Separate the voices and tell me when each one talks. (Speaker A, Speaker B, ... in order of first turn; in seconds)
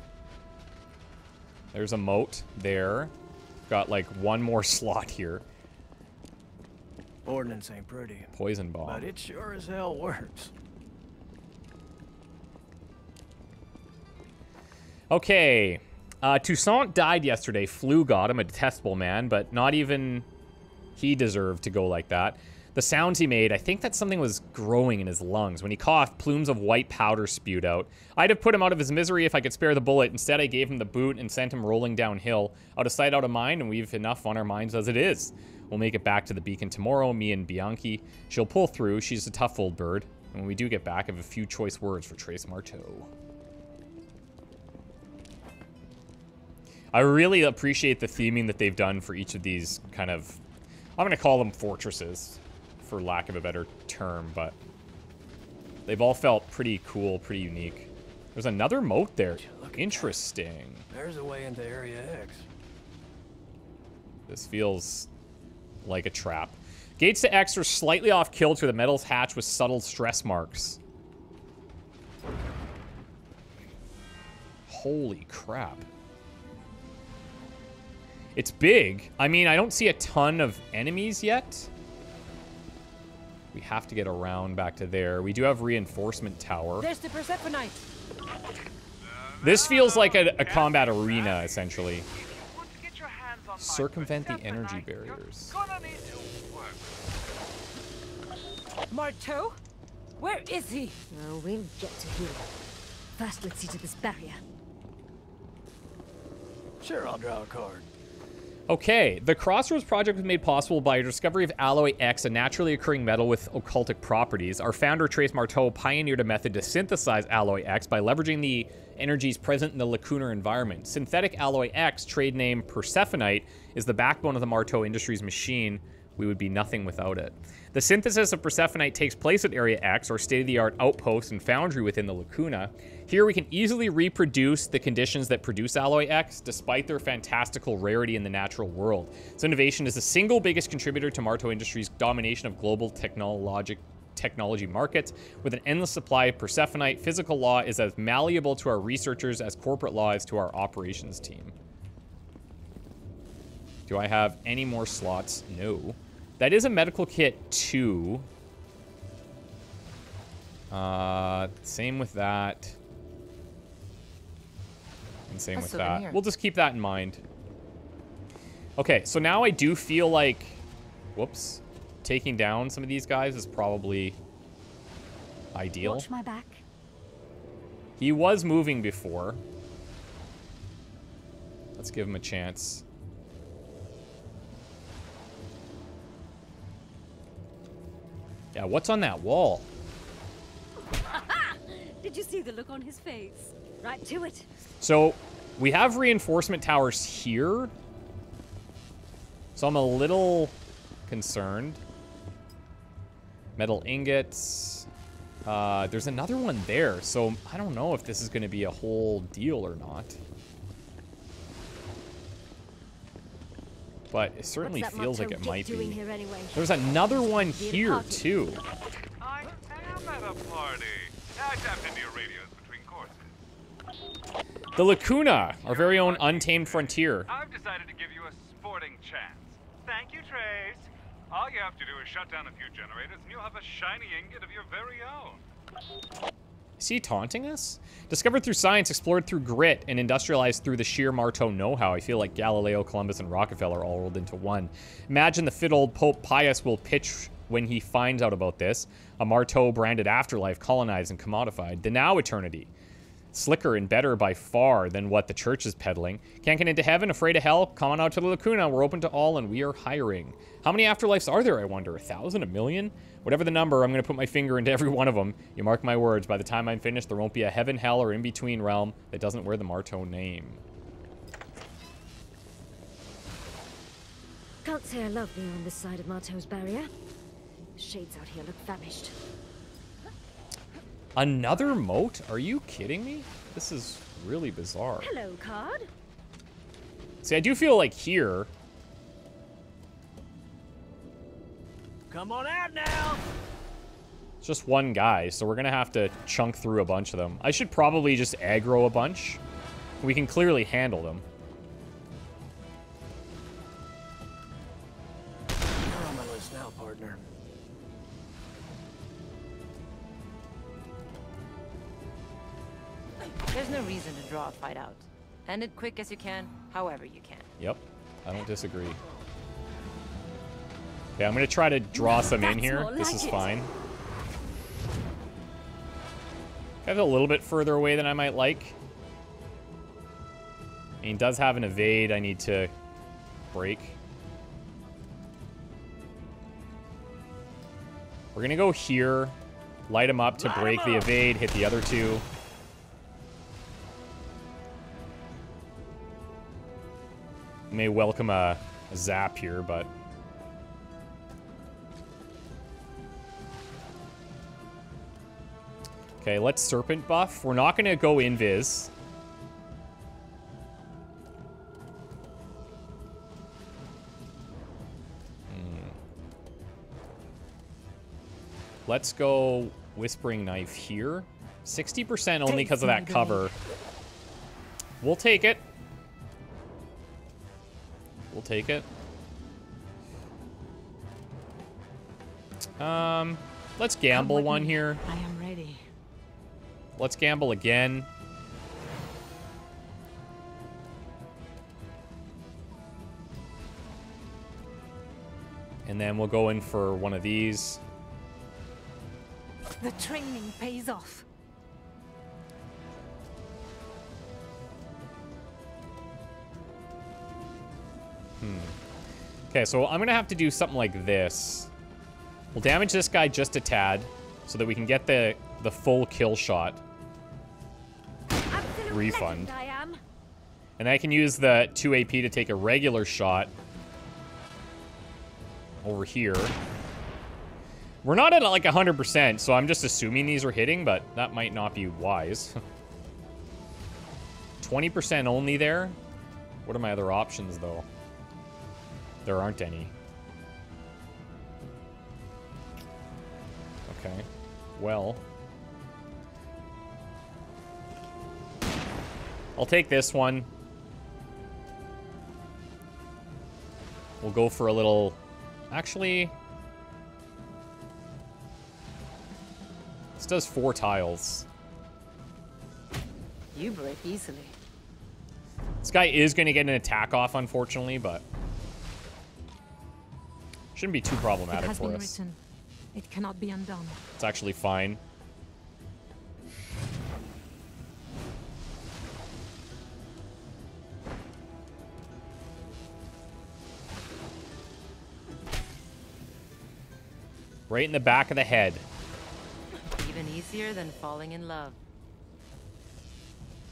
Speaker A: 1.7-3.1, 3.7-5.4, 8.3-9.1, 15.1-20.2, 21.0-43.1, 46.9-50.4, 51.0-54.6, 55.9-60.9, 64.3-65.1, 65.8-70.8, 74.7-75.8, 78.3-81.7, 83.5-86.9, 89.4-92.1, 93.6-95.6, 108.7-151.5, 153.9-158.3, 160.7-162.8, 165.3-167.2, 168.8-170.6, 171.1-174.2, 175.5-176.1, 178.0-179.4, 181.8-182.8, 188.5-189.7, 194.8-197.7, 199.6-200.6, 201.1-201.8, 203.6-204.9, 205.4-210.2, 214.1-216.0, 216.5-218.6, 224.7-227.3, 236.8-252.7, 253.3-270.6, 281.1-285.1, 287.2-288.5, 294.4-299.4, 300.0-301.2, 317.6-319.0, 321.1-323.7, 326.8-328.8, 331.0-332.7, 333.5-333.9, 338.3-339.4, 339.9-342.2, 347.7-349.9, 356.2-358.9, 365.5-365.9, 368.9-373.5, 375.0-375.6, 378.3-378.9, 382.8-385.0, 387.0-388.1, 395.9-397.8, 408.4-408.7, 409.5-411.7, 412.5-416.8, 418.9-419.5, 420.8-423.5, 425.8-426.5, 428.0-432.6, 434.6-436.0, 436.6-437.9, 439.2-439.9, 443.9-445.2, 449.6-450.5, 454.2-455.2, 455.7-456.3, 460.2-461.4, 465.8-468.2, 470.7-472.1, 474.2-475.0, 487.7-488.8
Speaker B: 7.2-8.3, 8.8-10.5, 59.3-60.2, 60.9-62.5, 106.8-107.9, 292.1-293.2, 305.8-307.2, 340.3-341.1
Speaker C: 86.8-87.8, 98.9-99.6, 100.2-101.0, 372.4-373.5, 384.1-385.8, 399.8-401.2, 471.5-472.4, 472.9-474.0
Speaker D: 89.0-96.9, 219.2-223.5, 225.6-235.4
Speaker E: 101.1-102.5, 103.2-104.4, 175.8-176.6, 190.8-194.5, 214.6-218.5, 274.6-276.9, 277.8-279.1, 285.0-285.9, 321.9-323.6, 418.5-420.0
Speaker F: 165.5-166.2, 313.5-317.5, 463.5-464.5, 490.0-491.8